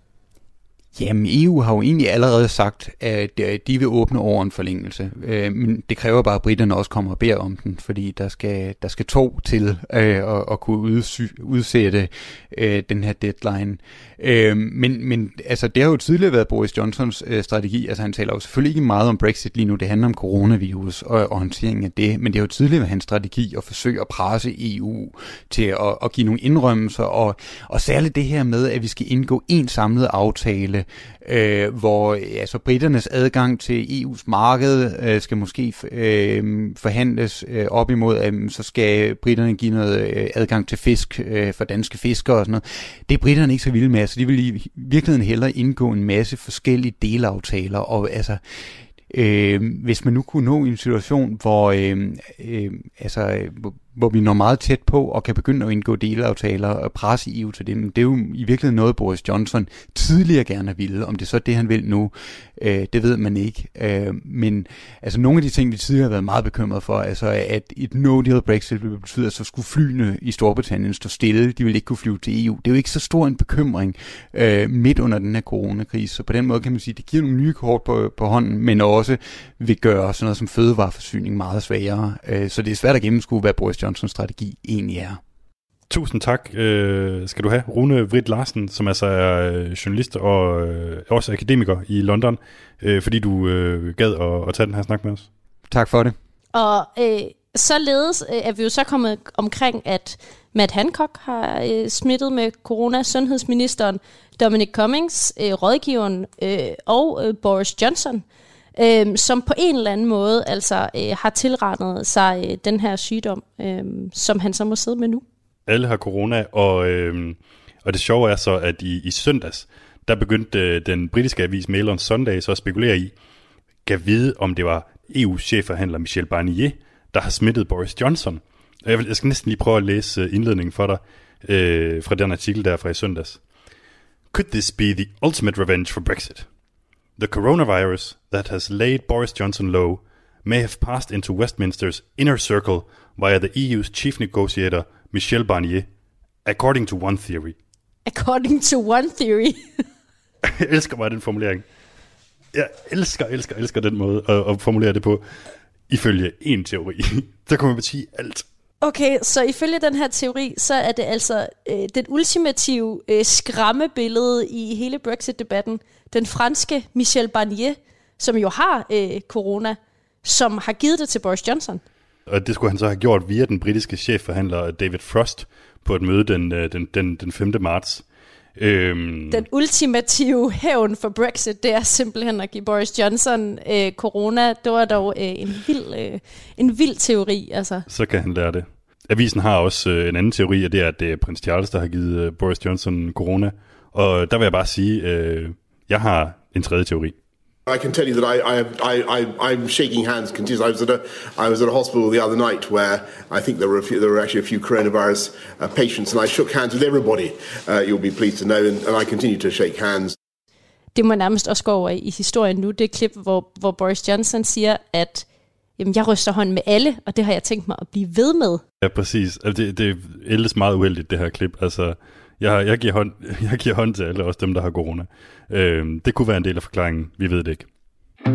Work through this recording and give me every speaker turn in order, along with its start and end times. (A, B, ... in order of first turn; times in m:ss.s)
0:01.0-0:48.4 A
0:49.1-1:25.2 A
1:25.9-1:35.3 B
1:35.7-1:36.2 A
1:36.5-1:48.2 C
1:48.8-1:55.2 C
1:55.7-2:03.1 B
2:03.8-2:13.4 B
2:14.3-2:16.5 B
2:17.2-2:25.9 B
2:26.4-2:27.5 B
2:28.0-2:29.8 C
2:30.4-2:31.6 B
2:32.5-2:35.2 B
2:35.9-2:38.4 B
2:38.8-2:51.8 C
2:52.3-2:58.0 B
2:58.6-2:59.4 B
2:59.3-3:07.8 C
3:07.9-3:17.1 B
3:17.7-3:30.1 D
3:30.9-3:35.2 C
3:35.8-3:38.6 C
3:38.8-3:47.7 B